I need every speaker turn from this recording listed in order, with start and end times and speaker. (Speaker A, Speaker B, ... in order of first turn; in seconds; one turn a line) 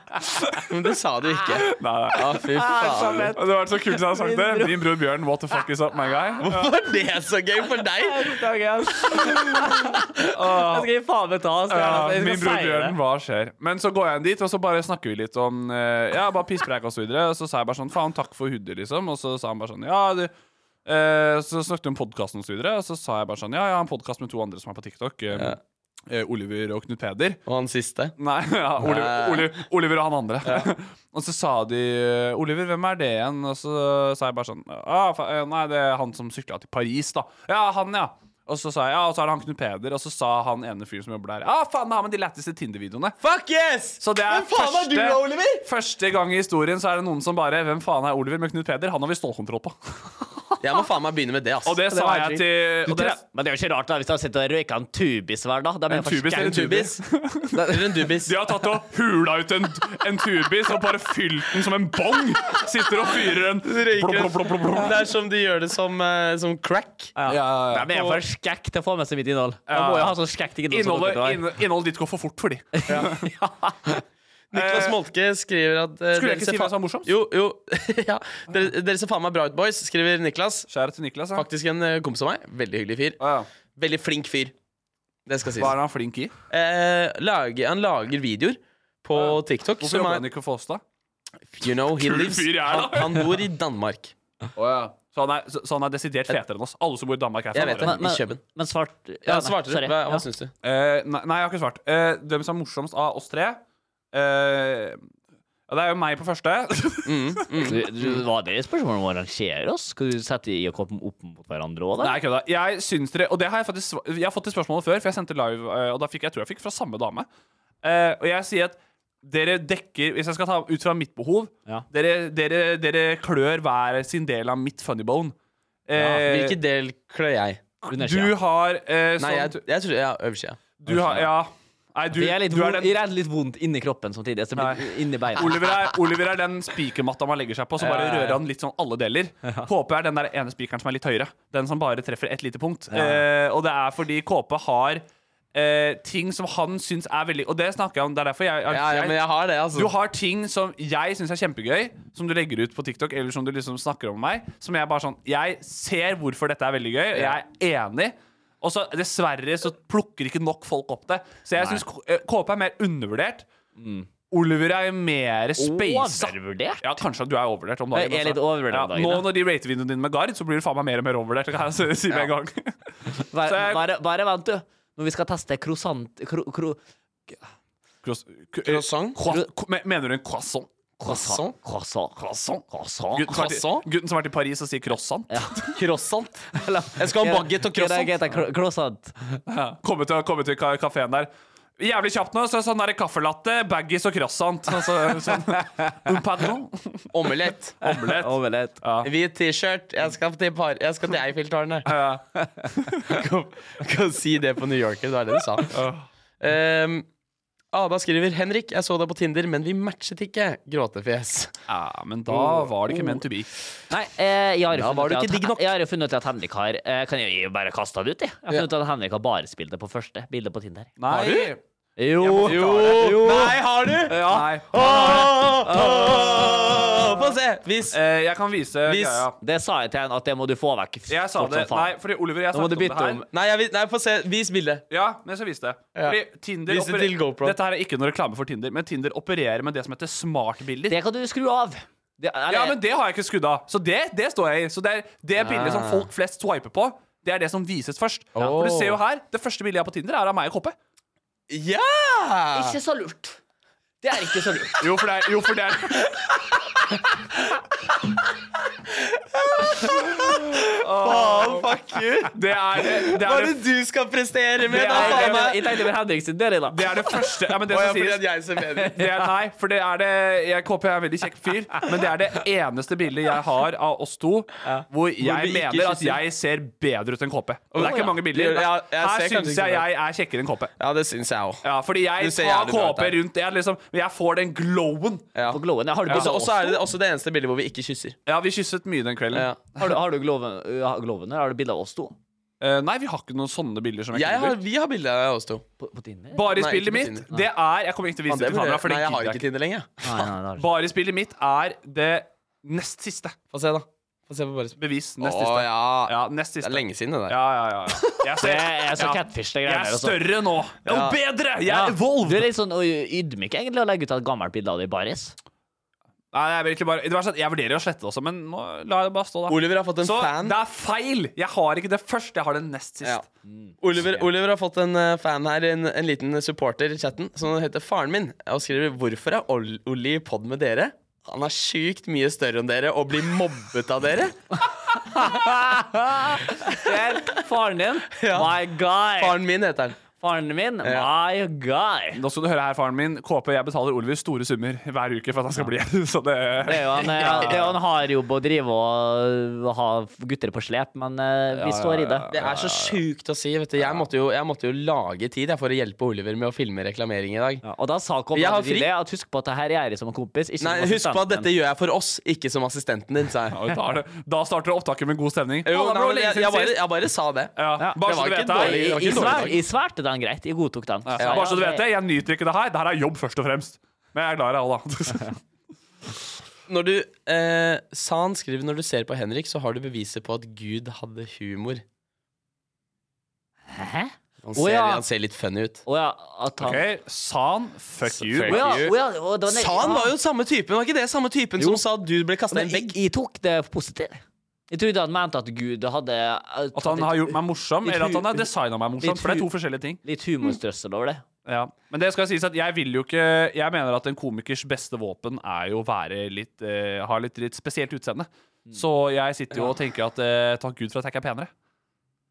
Speaker A: 0.7-3.3
Speaker B: 1.7-6.7
Speaker C: 2.5-4.8
Speaker A: 6.4-8.4
Speaker C: 8.0-10.0
Speaker B: 10.3-10.9
Speaker C: 10.7-13.0
Speaker B: 11.7-20.3
Speaker B: 20.9-25.6
Speaker B: 26.1-27.4
Speaker A: 27.5-28.1
Speaker B: 28.2-43.2
Speaker A: 28.8-29.5
Speaker A: 43.2-45.6
Speaker B: 44.0-49.8
Speaker A: 50.6-52.0
Speaker B: 51.7-53.2
Speaker C: 51.9-56.8
Speaker B: 55.9-57.6
Speaker A: 56.4-57.0
Speaker C: 57.5-57.8
Speaker A: 57.6-58.3
Speaker B: 58.2-65.1
Speaker A: 63.6-67.2
Speaker C: 67.2-71.4
Speaker B: 67.3-67.9
Speaker A: 67.9-68.2
Speaker B: 69.7-70.2
Speaker B: 70.7-73.2
Speaker C: 72.8-73.9
Speaker A: 74.5-80.7
Speaker B: 74.5-75.0
Speaker B: 76.1-77.1
Speaker B: 80.7-81.5
Speaker A: 81.3-83.2
Speaker B: 83.2-83.5
Speaker A: 83.8-84.5
Speaker A: 85.3-85.8
Speaker B: 85.6-86.3
Speaker A: 86.5-90.2
Speaker B: 89.1-90.8
Speaker A: 91.5-94.1
Speaker B: 91.7-93.4
Speaker B: 94.6-98.0
Speaker A: 97.5-98.4
Speaker C: 97.8-100.2
Speaker A: 99.3-100.5
Speaker B: 100.6-103.6
Speaker B: 104.1-105.0
Speaker B: 105.7-107.3
Speaker A: 107.0-108.2
Speaker C: 107.7-112.2
Speaker B: 112.0-117.3
Speaker B: 117.8-125.3
Speaker B: 125.9-126.6
Speaker A: 126.2-127.6
Speaker C: 127.9-128.4
Speaker B: 127.9-129.6
Speaker A: 129.2-130.6
Speaker B: 130.8-132.9
Speaker C: 130.9-131.3
Speaker C: 132.1-135.9
Speaker B: 134.6-149.2
Speaker C: 137.8-138.4
Speaker C: 142.9-143.2
Speaker A: 148.7-149.9
Speaker B: 149.7-163.5
Speaker C: 161.6-161.8
Speaker C: 163.8-164.1
Speaker B: 164.3-173.8
Speaker C: 165.6-166.9
Speaker C: 167.9-169.3
Speaker C: 173.3-176.8
Speaker B: 178.0-180.7
Speaker A: 178.7-179.2
Speaker C: 181.0-183.4
Speaker A: 181.1-181.6
Speaker B: 183.2-185.8
Speaker A: 183.3-183.8
Speaker C: 185.3-185.6
Speaker A: 185.8-188.2
Speaker C: 186.5-189.4
Speaker B: 189.5-197.1
Speaker C: 195.6-195.9
Speaker A: 197.1-197.8
Speaker B: 197.8-199.1
Speaker C: 197.8-198.8
Speaker A: 199.0-201.9
Speaker B: 201.9-203.1
Speaker C: 202.4-202.7
Speaker A: 203.1-205.8
Speaker B: 205.7-206.1
Speaker A: 206.4-207.1
Speaker A: 207.7-211.5
Speaker B: 211.7-213.5
Speaker A: 212.3-213.2
Speaker C: 213.9-220.9
Speaker A: 214.7-215.6
Speaker B: 221.0-221.6
Speaker A: 221.1-221.5
Speaker C: 222.0-227.2
Speaker B: 222.2-223.3
Speaker A: 222.4-228.0
Speaker B: 224.2-225.5
Speaker B: 227.9-229.4
Speaker A: 228.9-229.3
Speaker C: 229.4-231.9
Speaker B: 231.1-233.2
Speaker C: 232.5-233.2
Speaker A: 233.3-234.8
Speaker B: 234.9-241.0
Speaker A: 236.0-237.6
Speaker C: 240.9-242.8
Speaker B: 242.5-250.8
Speaker A: 245.4-246.1
Speaker A: 248.4-249.0
Speaker A: 251.5-252.8
Speaker C: 252.5-253.4
Speaker C: 254.0-254.8
Speaker B: 254.8-256.1
Speaker A: 258.9-265.6
Speaker B: 260.6-261.7
Speaker B: 262.3-263.6
Speaker B: 264.7-265.6
Speaker C: 264.8-266.9
Speaker B: 266.7-268.3
Speaker A: 267.7-269.0
Speaker B: 268.9-280.7
Speaker A: 274.7-276.2
Speaker A: 277.7-279.9
Speaker C: 277.8-278.1
Speaker A: 280.8-281.6
Speaker B: 281.6-285.3
Speaker A: 282.2-283.2
Speaker A: 285.4-288.2
Speaker C: 285.5-286.8
Speaker B: 286.1-286.4
Speaker B: 288.3-290.0
Speaker A: 289.3-289.6
Speaker C: 289.8-292.1
Speaker B: 292.6-294.6
Speaker A: 294.1-295.6
Speaker C: 295.8-296.5
Speaker B: 296.3-299.4
Speaker A: 296.5-297.3
Speaker A: 298.3-300.2
Speaker C: 300.0-300.7
Speaker B: 300.6-303.4
Speaker A: 303.5-307.4
Speaker B: 304.8-312.5
Speaker C: 308.4-310.2
Speaker A: 310.9-311.2
Speaker C: 311.7-315.4
Speaker B: 316.3-323.2
Speaker A: 319.5-320.6
Speaker C: 323.5-324.2
Speaker A: 323.8-334.4
Speaker C: 335.1-339.4
Speaker A: 338.2-338.6
Speaker A: 339.2-340.0
Speaker C: 340.2-342.2
Speaker A: 340.8-341.1
Speaker B: 342.2-347.7
Speaker C: 346.7-352.3
Speaker A: 347.3-347.6
Speaker B: 351.6-353.0
Speaker A: 352.3-357.6
Speaker C: 357.6-361.5
Speaker A: 358.3-358.9
Speaker A: 360.6-363.6
Speaker B: 363.5-366.8
Speaker A: 365.7-369.6
Speaker B: 367.6-369.5
Speaker C: 367.8-371.9
Speaker B: 371.1-375.4
Speaker A: 371.2-371.5
Speaker A: 376.7-381.8
Speaker C: 383.7-385.1
Speaker A: 384.4-385.8
Speaker C: 385.9-386.8
Speaker B: 386.6-388.9
Speaker A: 388.1-389.0
Speaker C: 388.4-390.1
Speaker A: 389.5-392.9
Speaker C: 391.6-391.8
Speaker C: 392.5-398.5
Speaker B: 396.8-400.0
Speaker C: 399.0-399.5
Speaker C: 400.0-401.2
Speaker B: 401.5-411.5